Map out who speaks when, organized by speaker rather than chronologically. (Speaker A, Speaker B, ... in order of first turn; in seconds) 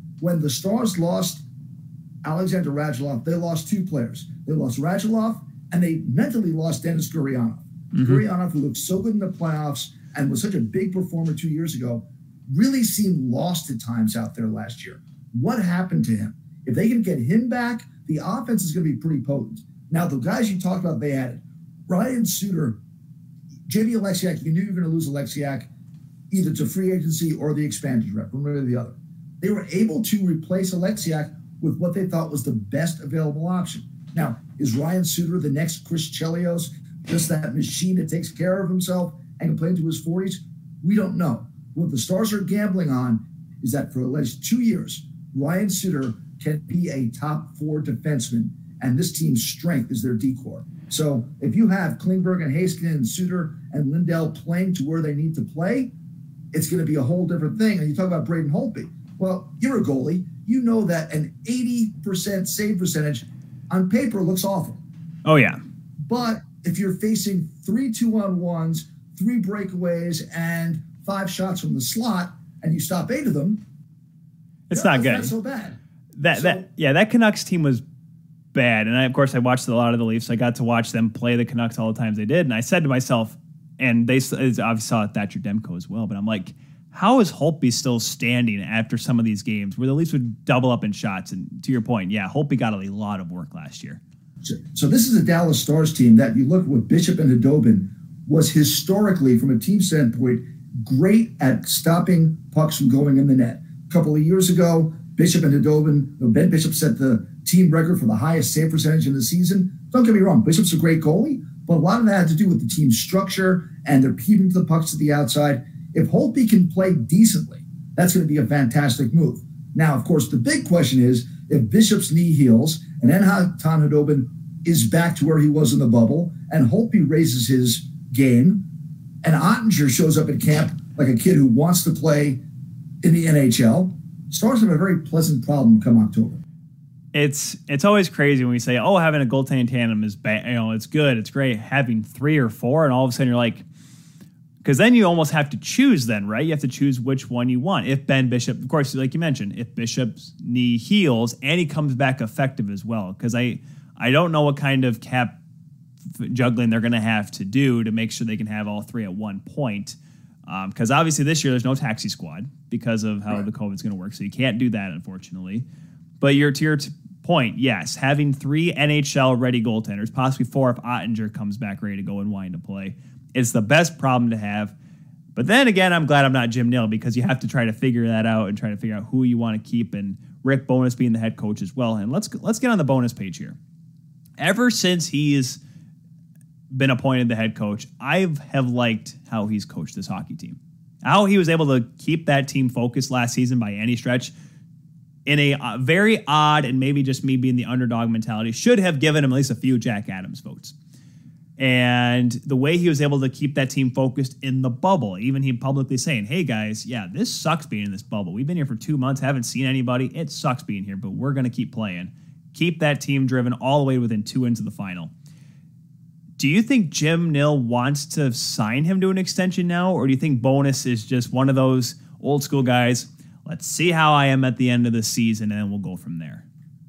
Speaker A: 0.2-1.4, 2.2-22.8, 23.7-25.7, 26.3-55.9, 56.5-64.8, 66.1-73.6, 74.7-75.8, 76.3-76.7, 94.4-128.7, 129.2-132.4, 133.0-136.4
Speaker B: 8.0-8.2, 65.2-65.6, 74.7-75.3, 76.2-77.8, 78.5-94.0, 137.1-143.7, 144.6-155.4, 156.2-165.7, 166.2-174.7, 175.3-183.6, 184.4-185.6, 186.7-194.3, 195.3-200.8, 201.6-215.1, 216.4-226.4